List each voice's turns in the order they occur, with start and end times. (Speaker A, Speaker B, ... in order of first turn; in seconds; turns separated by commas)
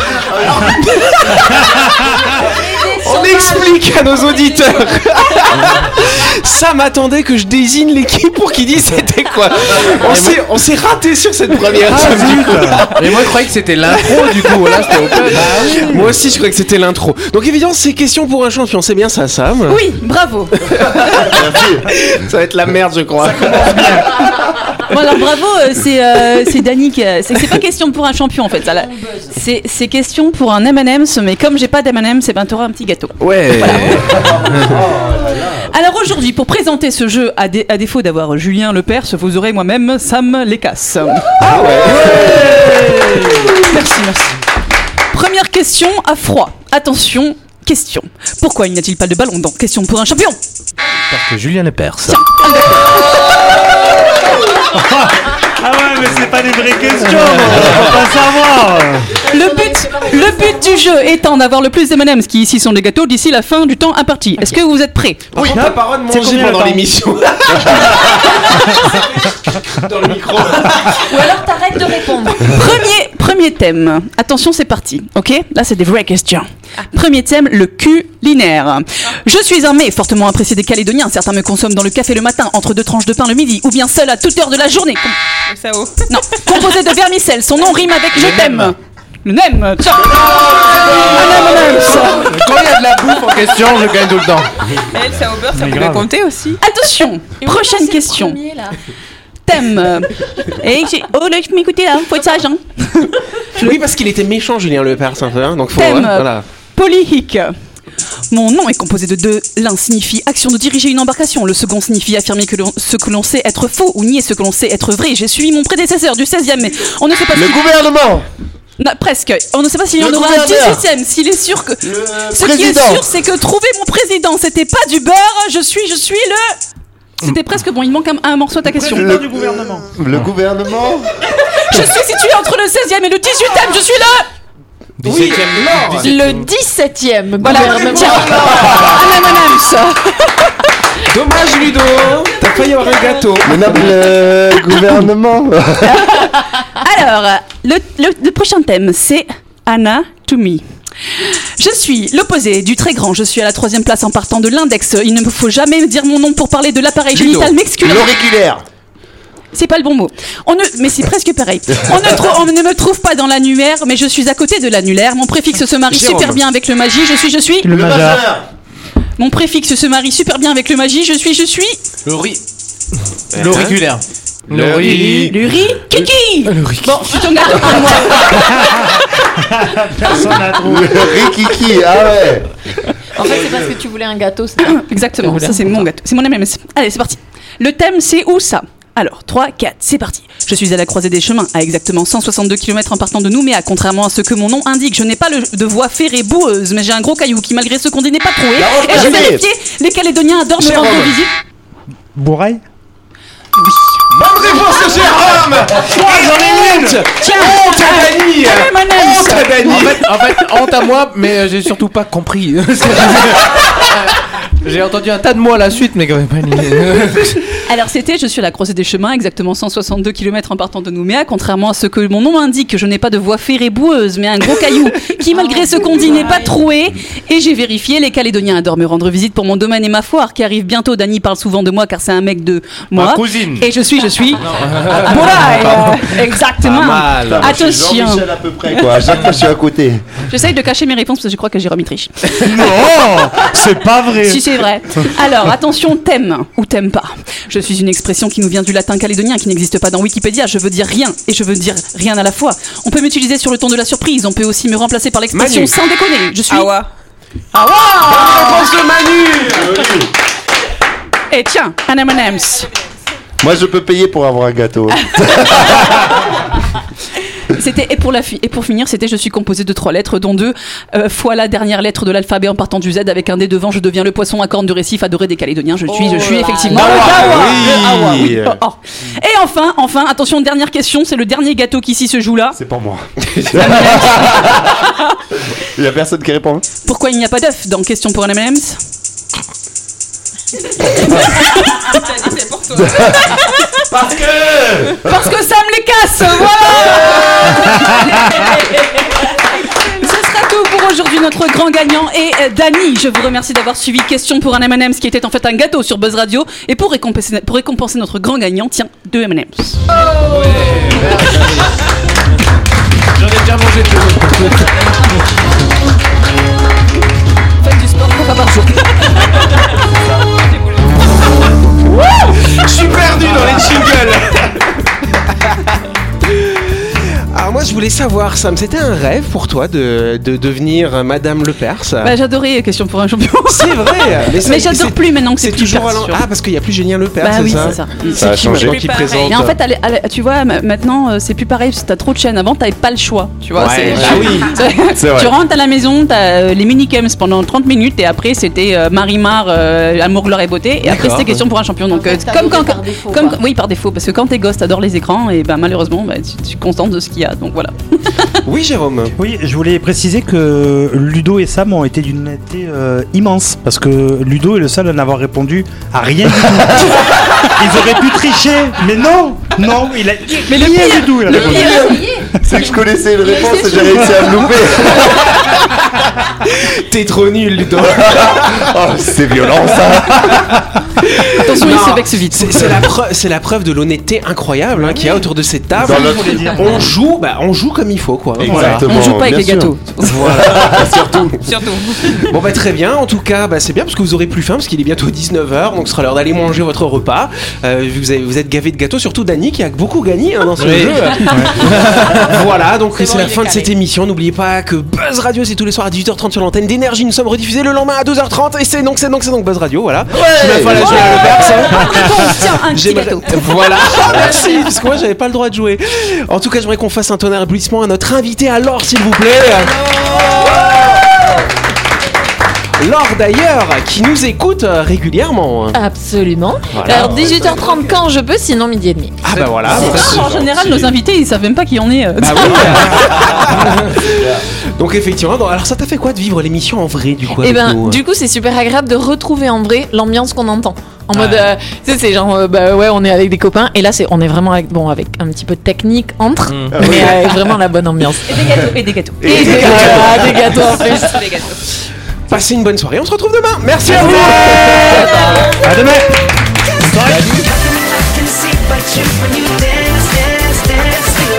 Speaker A: 0.2-0.9, Speaker B: 0.5-1.8, Speaker C: 1.5-2.2, Speaker B: 2.3-13.3, Speaker D: 2.3-5.0, Speaker E: 10.0-10.4, Speaker C: 11.8-12.9, Speaker E: 12.9-15.7, Speaker B: 14.2-19.8, Speaker C: 15.4-16.1, Speaker D: 19.7-20.6, Speaker B: 20.6-24.1, Speaker A: 20.8-21.9, Speaker C: 23.3-24.1, Speaker D: 24.9-34.5, Speaker E: 33.2-34.7, Speaker A: 33.8-35.8, Speaker D: 35.7-41.4, Speaker A: 41.4-43.6, Speaker B: 41.5-42.3, Speaker D: 43.1-44.4, Speaker D: 45.1-50.4, Speaker E: 51.1-52.2, Speaker D: 52.1-53.4, Speaker C: 54.7-59.2, Speaker D: 59.2-65.3, Speaker F: 59.7-60.6, Speaker B: 65.3-71.2, Speaker C: 65.4-66.8, Speaker A: 67.7-68.0, Speaker F: 71.1-72.6, Speaker D: 72.3-85.2, Speaker G: 85.5-86.0, Speaker D: 86.1-92.3, Speaker E: 88.2-88.7, Speaker A: 90.0-91.8, Speaker E: 91.9-94.5, Speaker G: 94.8-96.6, Speaker C: 95.5-96.1, Speaker D: 96.6-98.4, Speaker F: 97.4-98.8, Speaker D: 99.5-103.8, Speaker B: 103.6-106.4, Speaker D: 105.8-107.5, Speaker D: 108.3-117.9, Speaker A: 117.3-118.3, Speaker D: 118.8-126.6, Speaker A: 120.0-120.8, Speaker A: 121.8-123.1, Speaker D: 127.2-129.2, Speaker C: 128.8-129.9, Speaker A: 128.9-131.1, Speaker D: 131.4-134.3, Speaker E: 135.0-136.5, Speaker B: 135.1-136.1, Speaker F: 136.0-138.5, Speaker D: 137.4-140.5, Speaker B: 137.5-139.0, Speaker A: 138.0-139.1, Speaker B: 141.1-143.9, Speaker A: 143.4-146.2, Speaker D: 145.9-150.6, Speaker D: 151.2-158.1, Speaker B: 157.2-157.5, Speaker A: 157.8-158.6, Speaker D: 159.5-167.7, Speaker B: 165.9-166.4, Speaker C: 167.6-168.2, Speaker A: 167.7-168.5, Speaker D: 169.2-171.8, Speaker E: 172.1-172.4, Speaker B: 173.3-173.8, Speaker E: 173.3-175.4, Speaker B: 174.5-175.1, Speaker D: 174.8-178.5, Speaker E: 176.5-177.1, Speaker C: 178.2-181.2, Speaker A: 180.6-182.5, Speaker F: 183.2-185.6, Speaker A: 183.2-183.7, Speaker D: 184.7-201.3, Speaker A: 198.6-199.4, Speaker A: 200.6-201.1, Speaker B: 200.7-201.0, Speaker C: 202.2-202.6, Speaker B: 204.1-210.0, Speaker C: 205.9-207.0, Speaker D: 207.1-209.8, Speaker E: 209.6-217.4, Speaker D: 217.6-239.2, Speaker F: 225.3-226.6, Speaker E: 232.9-233.7, Speaker E: 234.5-235.7, Speaker B: 236.6-237.5, Speaker A: 237.2-240.0, Speaker D: 240.3-242.7, Speaker C: 242.4-244.6, Speaker D: 244.1-256.7, Speaker B: 255.3-255.7, Speaker G: 256.5-256.9, Speaker B: 257.5-259.9, Speaker A: 259.5-260.1, Speaker D: 261.3-262.7, Speaker A: 263.4-266.2, Speaker D: 267.5-282.6, Speaker F: 275.9-277.0, Speaker B: 276.7-278.6, Speaker A: 276.7-278.4, Speaker A: 282.6-286.6, Speaker B: 283.3-284.1, Speaker D: 283.6-285.0, Speaker D: 286.9-288.8, Speaker D: 290.8-292.0, Speaker G: 291.9-293.2, Speaker A: 292.8-293.4, Speaker D: 293.1-293.8, Speaker A: 293.9-295.2, Speaker D: 295.0-309.8, Speaker E: 310.2-311.7, Speaker E: 313.1-314.7, Speaker D: 317.6-319.5, Speaker B: 321.9-324.7, Speaker B: 325.3-325.7, Speaker B: 326.2-332.1, Speaker D: 332.0-336.2, Speaker B: 333.5-339.6, Speaker D: 337.2-338.1, Speaker G: 337.9-339.4, Speaker A: 338.1-338.9, Speaker D: 339.2-358.3, Speaker B: 343.6-344.6, Speaker A: 343.9-345.3, Speaker B: 350.8-351.4, Speaker F: 351.9-353.4, Speaker B: 358.4-359.1, Speaker C: 359.2-371.8, Speaker D: 370.5-372.0, Speaker A: 371.2-375.5, Speaker F: 373.2-374.3, Speaker B: 376.4-378.7, Speaker A: 377.8-380.6, Speaker B: 381.0-388.8, Speaker D: 381.4-382.8, Speaker C: 384.8-385.2, Speaker A: 385.8-386.9, Speaker C: 385.8-386.9, Speaker A: 388.4-391.5, Speaker C: 388.4-388.8, Speaker D: 388.9-390.5, Speaker B: 390.0-391.3, Speaker G: 391.4-392.1, Speaker B: 392.0-419.8, Speaker E: 400.6-402.4, Speaker F: 402.9-403.4, Speaker G: 403.0-403.7, Speaker A: 410.1-411.5, Speaker D: 410.8-413.9, Speaker A: 419.7-421.1, Speaker B: 420.4-420.9, Speaker B: 422.8-425.8, Speaker F: 425.7-429.2, Speaker B: 426.7-427.2, Speaker A: 426.8-428.0, Speaker B: 429.2-430.3, Speaker E: 429.3-429.9, Speaker A: 429.7-430.7, Speaker D: 429.7-433.1, Speaker E: 430.6-430.9, Speaker B: 432.2-438.0, Speaker A: 432.4-434.4, Speaker F: 437.4-448.4, Speaker E: 441.1-441.5, Speaker E: 446.5-446.8, Speaker A: 446.7-447.2, Speaker D: 448.2-449.9, Speaker F: 449.2-451.3, Speaker A: 449.2-449.9, Speaker B: 449.3-450.2, Speaker C: 449.5-450.1, Speaker G: 451.1-451.6, Speaker B: 452.3-455.5, Speaker D: 454.6-455.0, Speaker C: 455.4-456.2, Speaker C: 456.8-457.4